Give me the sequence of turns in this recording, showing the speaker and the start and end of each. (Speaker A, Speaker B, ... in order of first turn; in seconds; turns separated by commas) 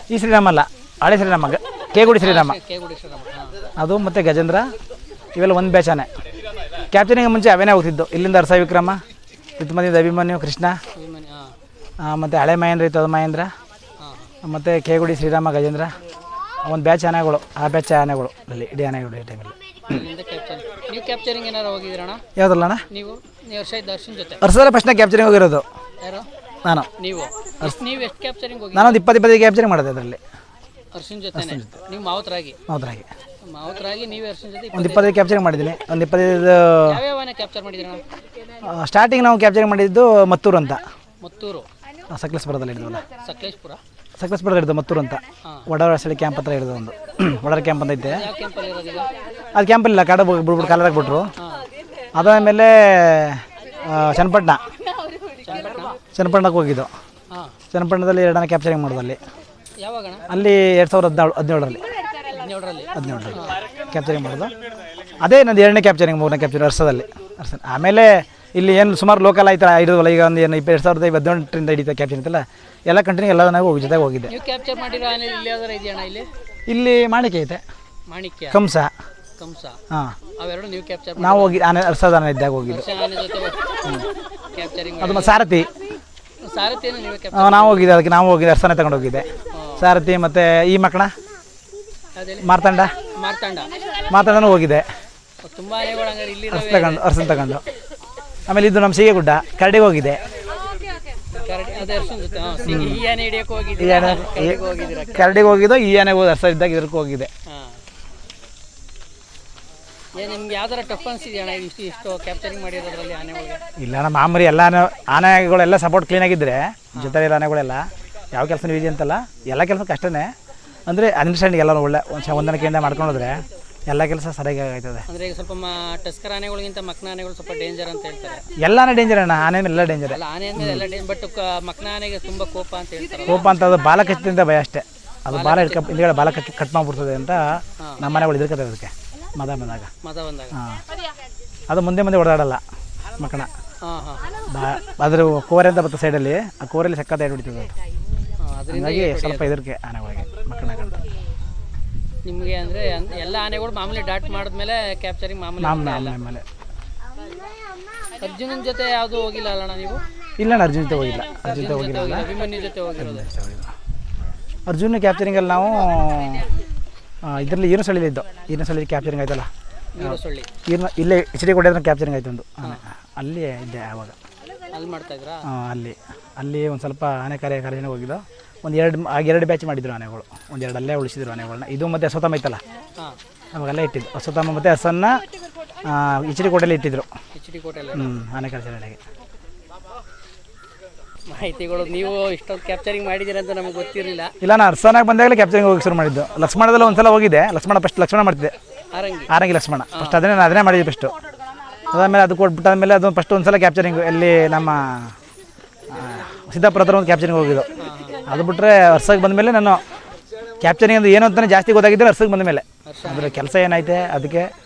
Speaker A: 0.1-2.6, Speaker B: 2.0-3.7, Speaker A: 3.8-4.7, Speaker A: 5.3-6.1, Speaker A: 6.9-9.0, Speaker A: 9.6-10.8, Speaker B: 10.9-11.6, Speaker A: 12.0-13.5, Speaker B: 14.0-14.3, Speaker A: 14.4-15.9, Speaker A: 16.6-20.0, Speaker B: 19.9-22.2, Speaker A: 22.4-22.8, Speaker B: 22.9-24.4, Speaker A: 24.4-25.6, Speaker B: 26.0-26.3, Speaker B: 27.0-29.0, Speaker A: 28.7-30.2, Speaker B: 30.9-32.6, Speaker A: 31.4-31.8, Speaker A: 32.7-33.1, Speaker B: 33.5-35.2, Speaker A: 34.7-37.0, Speaker B: 36.9-38.0, Speaker A: 38.6-40.8, Speaker B: 41.2-41.7, Speaker A: 42.1-43.0, Speaker B: 43.2-43.8, Speaker A: 44.2-48.3, Speaker B: 48.0-49.1, Speaker A: 49.5-51.3, Speaker B: 50.6-51.7, Speaker A: 52.1-54.6, Speaker B: 55.4-56.0, Speaker A: 56.1-56.9, Speaker B: 57.3-57.6, Speaker A: 57.7-59.2, Speaker B: 59.8-60.3, Speaker A: 60.3-61.9, Speaker B: 62.3-63.6, Speaker A: 62.9-64.5, Speaker A: 65.2-74.3, Speaker B: 74.3-76.3, Speaker A: 76.7-77.6, Speaker B: 78.1-78.6, Speaker A: 78.5-78.9, Speaker B: 79.4-79.8, Speaker A: 79.9-80.2, Speaker B: 80.4-81.6, Speaker A: 81.2-82.8, Speaker B: 82.7-83.8, Speaker B: 84.4-85.5, Speaker A: 85.0-85.7, Speaker B: 86.4-88.0, Speaker A: 87.3-91.1, Speaker B: 89.5-89.9, Speaker B: 92.2-92.5, Speaker A: 92.4-92.9, Speaker B: 93.1-93.8, Speaker A: 94.1-94.9, Speaker B: 95.4-97.0, Speaker A: 96.5-97.6, Speaker A: 98.5-100.2, Speaker B: 101.3-105.5, Speaker A: 102.7-103.1, Speaker A: 103.8-107.3, Speaker B: 107.5-107.8, Speaker B: 110.2-113.6, Speaker A: 113.8-120.3, Speaker A: 120.9-125.0, Speaker B: 125.1-128.5, Speaker A: 128.6-130.8, Speaker B: 130.1-133.5, Speaker A: 133.3-139.9, Speaker B: 135.3-136.0, Speaker B: 140.0-140.6, Speaker A: 140.5-140.8, Speaker A: 141.7-142.6, Speaker A: 143.2-143.5, Speaker B: 143.8-144.3, Speaker A: 144.5-147.7, Speaker B: 148.4-149.5, Speaker A: 148.7-151.0, Speaker B: 152.2-156.2, Speaker A: 155.6-156.4, Speaker B: 158.2-160.1, Speaker A: 160.4-162.3, Speaker B: 161.4-163.3, Speaker A: 163.0-163.7, Speaker A: 164.7-166.5, Speaker A: 167.2-169.5, Speaker B: 170.0-170.5, Speaker A: 170.0-174.2, Speaker B: 174.7-175.5, Speaker A: 175.5-182.6, Speaker A: 183.6-185.2, Speaker A: 185.8-187.1, Speaker B: 187.3-188.1, Speaker A: 187.9-189.0, Speaker B: 191.3-194.3, Speaker A: 194.4-198.6, Speaker B: 198.9-199.3, Speaker A: 199.3-201.1, Speaker B: 199.9-200.2, Speaker A: 201.9-205.2, Speaker A: 205.9-207.7, Speaker B: 207.8-208.2, Speaker A: 208.3-209.8, Speaker A: 210.6-214.5, Speaker B: 212.9-213.5